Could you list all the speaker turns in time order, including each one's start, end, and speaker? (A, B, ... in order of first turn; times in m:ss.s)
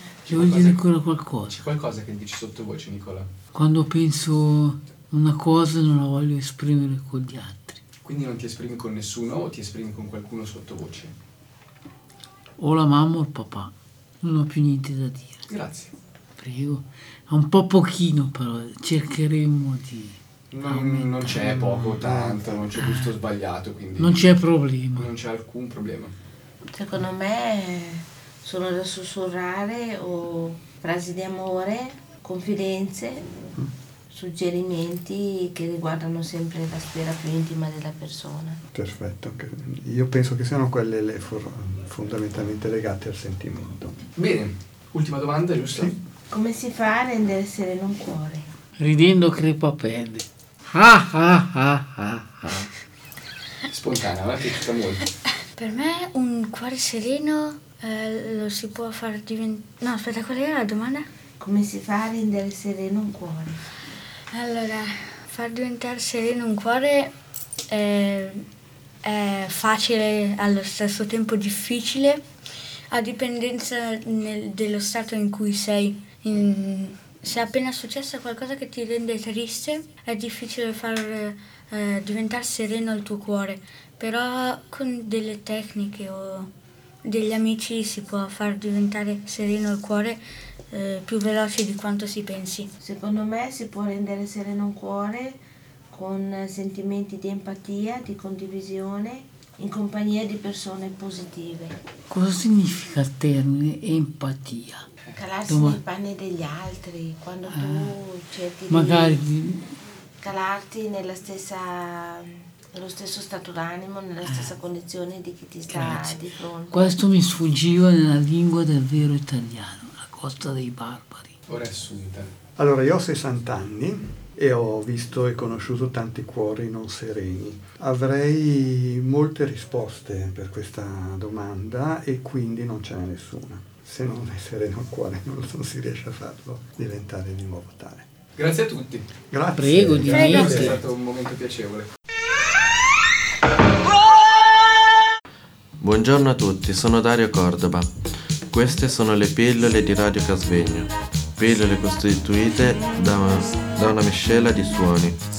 0:00.2-0:00.9 A
0:00.3-0:01.6 B
0:01.5-0:03.3 A
0:03.5-0:07.8 B
0:08.0-0:11.1 A
0:12.6-0:15.4 B
0:15.5-0:15.9 A
0:16.4-0:21.5 B
0:20.5-0:26.1 A
0:21.6-0:22.6 C
0:22.8-0:23.1 B
0:24.0-0:25.1 B
0:26.7-0:33.2 D
0:34.1-0:38.6 D
0:38.7-0:44.0 C
0:44.2-0:46.0 A
0:46.3-0:48.4 D
0:48.8-0:52.7 B
0:53.7-0:55.1 A
0:55.6-1:01.0 E
1:01.4-1:03.6 D
1:04.3-1:07.1 E
1:07.7-1:08.4 E
1:09.0-1:12.2 E
1:12.9-1:26.5 E
1:27.0-1:30.2 E
1:30.7-1:32.7 E
1:32.8-1:35.4 D
1:35.9-1:41.8 D
1:42.1-1:44.8 B
1:45.1-1:49.2 D
1:45.5-1:45.8 B
1:47.5-1:47.9 B
1:48.7-1:49.7 B
1:50.2-1:56.9 D
1:54.2-1:54.5 B
1:55.7-2:01.3 B
2:01.5-2:02.3 A
2:02.6-2:18.1 C
2:18.4-2:19.1 A
2:19.3-2:20.8 C
2:19.5-2:20.8 B
2:20.0-2:21.9 A
2:20.1-2:20.6 E
2:25.8-2:27.9 F
2:28.5-2:35.2 F